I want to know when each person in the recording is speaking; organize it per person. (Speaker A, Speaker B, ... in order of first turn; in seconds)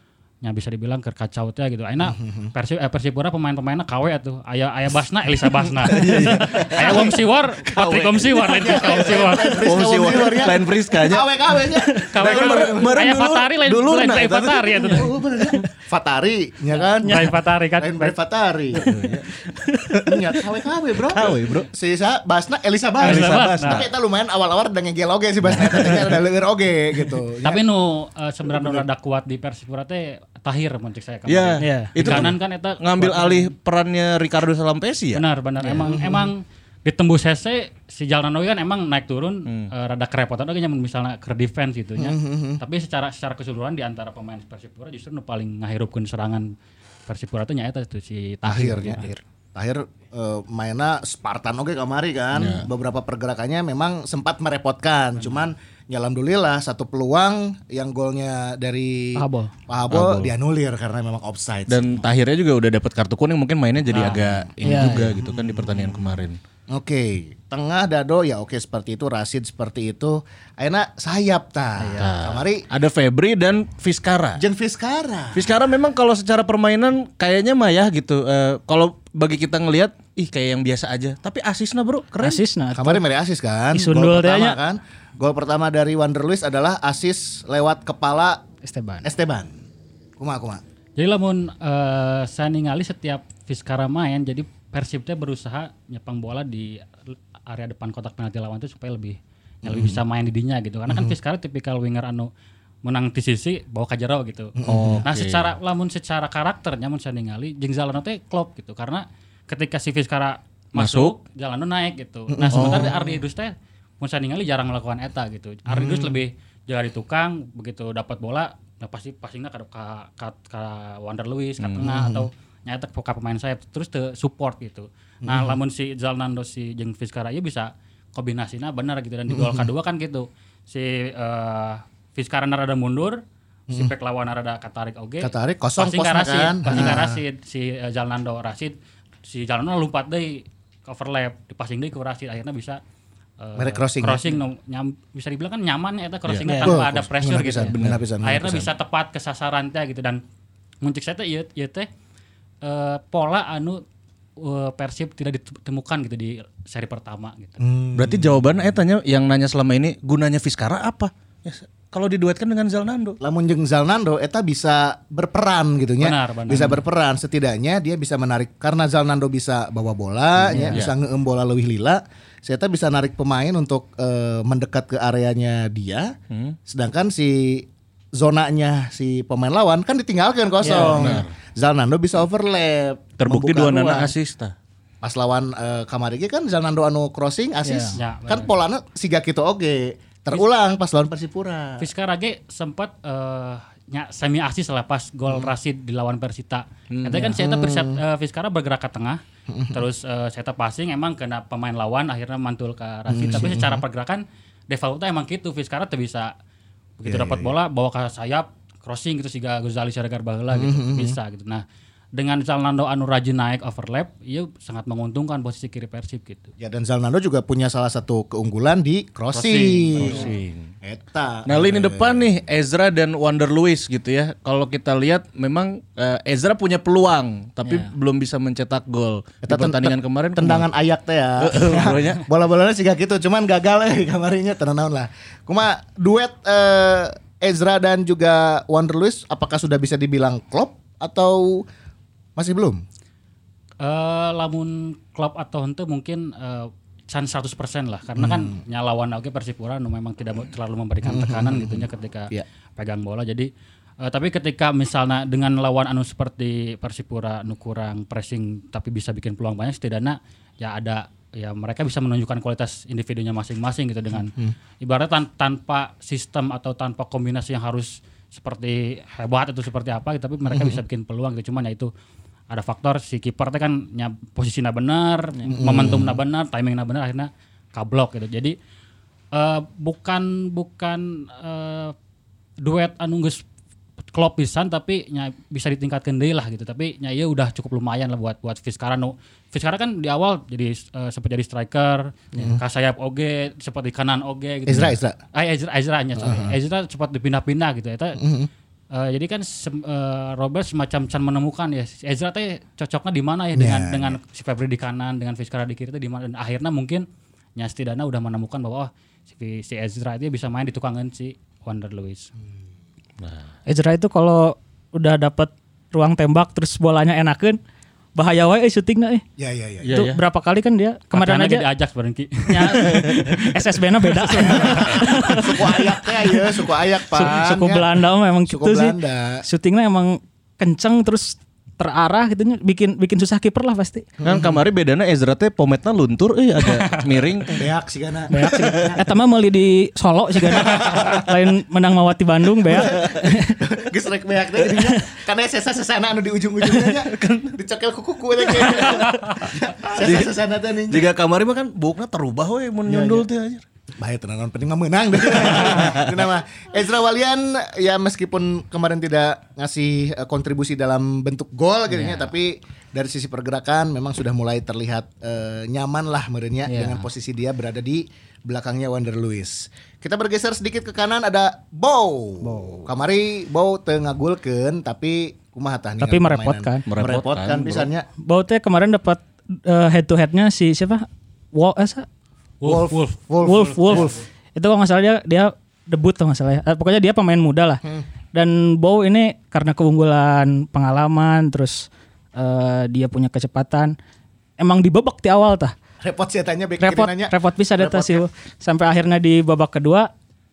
Speaker A: 0.4-9.8, 11.9-15.1, 17.0-18.1, 23.0-23.9, 27.4-33.5, 35.1-46.5, 47.1-49.0, 91.0-96.9, 97.5-102.3, 102.8-142.8, 143.4-150.2, 150.8-151.9, 152.6-153.8, 154.4-157.6, 166.0-166.8, 187.9-188.5, 191.8-199.2, 199.7-206.3, 207.0-211.6, 212.1-216.5, 219.3-220.3, 243.8-253.5, 254.0-271.9, 272.5-278.6, 279.3-281.9, 282.6-283.4, 284.1-298.2, 298.9-307.0, 307.6-312.3, 321.1-323.1, 336.6-337.0, 382.6-384.1
Speaker B: 2.0-2.5, 6.2-7.2, 8.4-13.0, 14.9-18.8, 20.0-27.6, 28.4-28.8, 35.8-36.3, 42.0-42.6, 48.4-62.0, 63.9-72.7, 74.4-75.5, 82.7-88.4, 89.0-89.5, 90.2-90.6, 99.6-100.0, 100.9-101.2, 104.5-105.0, 112.3-113.1, 115.7-116.2, 121.8-122.3, 125.2-125.6, 129.3-129.7, 135.2-137.2, 143.6-144.2, 146.5-148.7, 157.6-158.4, 163.2-184.1, 185.0-191.8, 197.3-198.0, 199.5-199.8, 203.1-203.8, 207.0-207.5, 210.5-211.2, 216.6-220.3, 220.8-222.3, 229.4-241.7, 242.3-242.8, 248.2-248.6, 251.0-252.4, 270.5-270.8, 275.5-276.2, 294.7-295.2, 296.2-296.6, 298.2-298.5, 303.5-304.2, 319.4-320.0, 324.4-329.4, 334.2-334.6, 337.6-339.1, 340.5-341.2, 342.7-351.1, 352.9-353.3, 354.0-378.1, 382.6-384.2, 396.0-398.2
Speaker C: 5.8-11.3, 12.2-15.0, 18.8-19.3, 19.8-20.2, 21.1-21.7, 23.0-23.9, 25.5-26.1, 31.3-35.2, 52.3-52.6, 59.9-60.3, 61.7-66.4, 71.9-74.4, 75.3-82.4, 104.7-105.5, 110.7-111.1, 112.5-112.9, 121.6-121.9, 147.7-148.5, 157.9-163.2, 176.3-176.6, 180.7-181.3, 183.2-184.5, 196.9-197.3, 220.0-220.7, 221.4-230.7, 231.4-232.2, 319.8-320.2, 322.9-323.2, 334.2-337.7, 346.9-347.6, 349.9-350.3, 350.9-353.6, 355.7-356.1, 376.9-377.9
Speaker D: 17.0-17.3, 18.9-19.9, 31.6-31.9, 48.7-49.2, 59.1-59.5, 64.6-65.1, 82.2-83.0, 83.7-84.6, 88.6-89.1, 146.4-146.8, 170.5-170.8, 180.6-181.2, 187.6-188.0, 227.6-227.9, 313.6-317.6, 318.1-319.2, 319.9-321.6, 322.5-334.1, 338.3-343.6, 344.8-345.0, 366.7-367.1, 372.4-372.9, 376.0-376.9, 378.2-382.1, 383.4-393.9, 394.6-395.7, 396.8-400.1